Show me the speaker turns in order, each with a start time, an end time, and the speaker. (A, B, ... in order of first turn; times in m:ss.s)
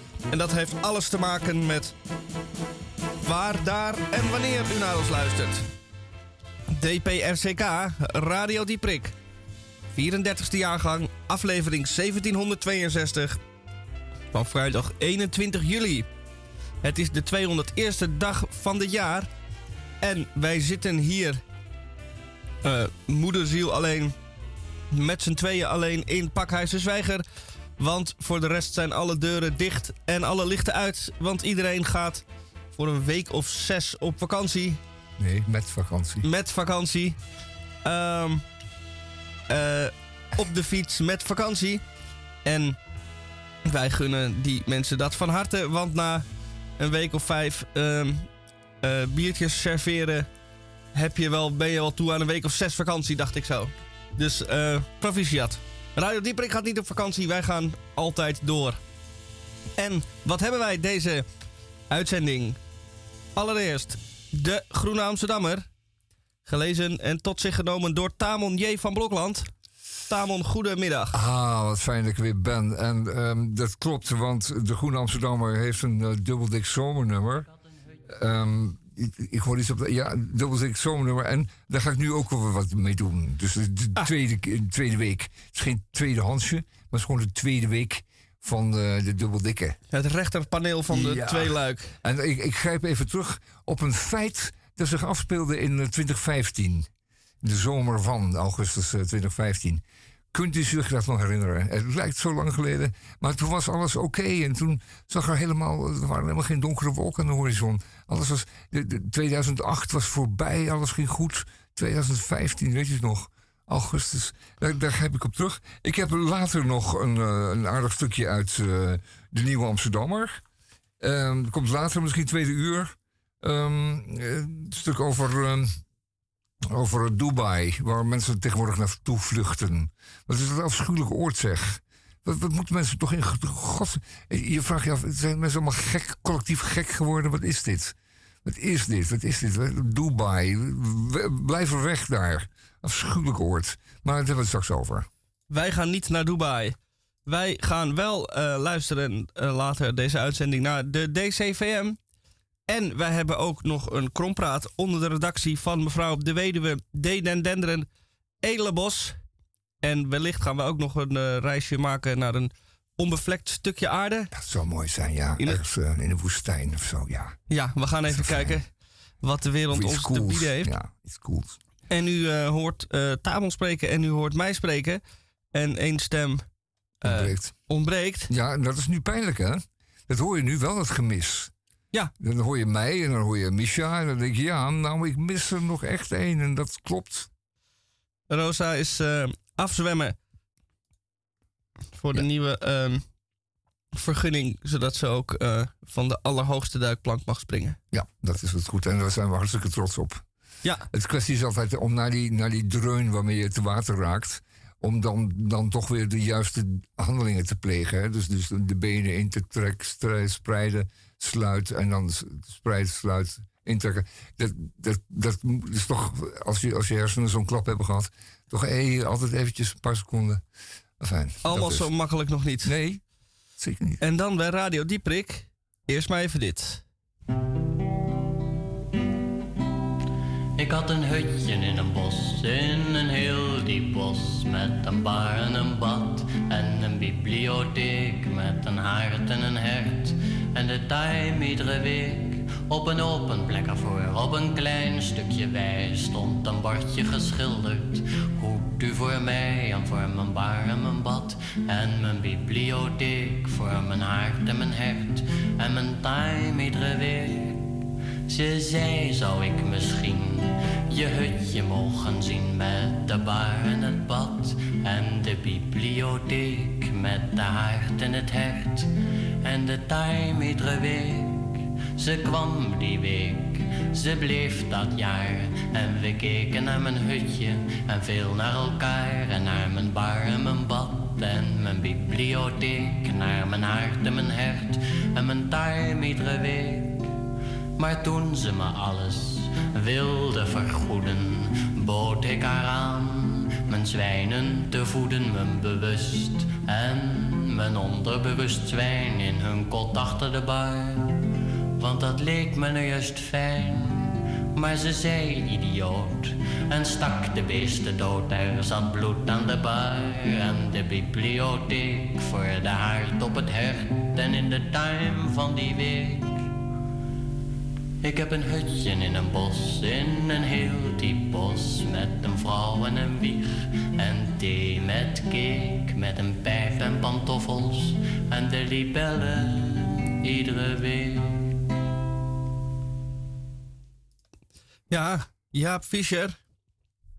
0:00.3-0:01.9 A
0:03.2-0:05.6 A
0:06.7-0:09.1 A
0:09.9-0:13.4 A
0:14.3-0:16.1 A
0:16.8-0:19.3 A
0:20.0-0:21.4 A
0:22.6-0:24.2 A
0:24.9-0:27.2 A
0:27.8-0:34.8 A
0:35.2-0:36.2 B
0:36.2-0:37.2 A
0:37.8-0:38.4 A
0:39.5-0:41.8 A
0:42.4-0:42.8 A
0:43.6-0:46.2 A
0:46.8-0:48.3 A
0:48.8-0:50.3 A
0:50.9-0:58.8 A
0:59.8-1:01.2 A
1:01.9-1:02.6 A
1:03.4-1:05.7 A
1:06.4-1:09.5 A
1:10.1-1:11.2 A
1:11.1-1:17.5 B
1:18.1-1:29.8 B
1:29.9-1:31.9 A
1:30.9-1:36.9 B
1:37.4-2:00.4 B
2:01.0-2:05.8 B
2:06.6-2:25.1 B
2:25.5-2:32.0 A
2:32.7-2:37.9 A
2:38.4-2:39.2 A
2:39.8-2:44.3 A
2:44.3-2:47.4 B
2:47.5-2:48.7 A
2:48.1-2:48.6 B
2:49.2-2:50.7 A
2:49.7-2:51.6 B
2:51.9-2:55.0 A
2:55.5-2:56.4 A
2:57.0-2:57.6 B
2:57.0-2:58.3 A
2:58.3-3:01.5 B
3:02.2-3:07.3 B
3:08.3-3:10.2 A
3:12.0-3:13.0 A
3:13.9-3:17.8 A
3:17.9-3:20.2 B
3:20.9-3:40.4 B
3:41.0-3:41.9 B
3:41.4-3:42.7 A
3:42.6-3:43.0 B
3:43.6-3:44.0 B
3:44.0-3:46.8 A
3:50.6-4:47.1 C
4:47.8-5:01.2 C
5:01.8-5:16.5 C
5:18.0-5:31.6 C
5:34.9-5:36.4 A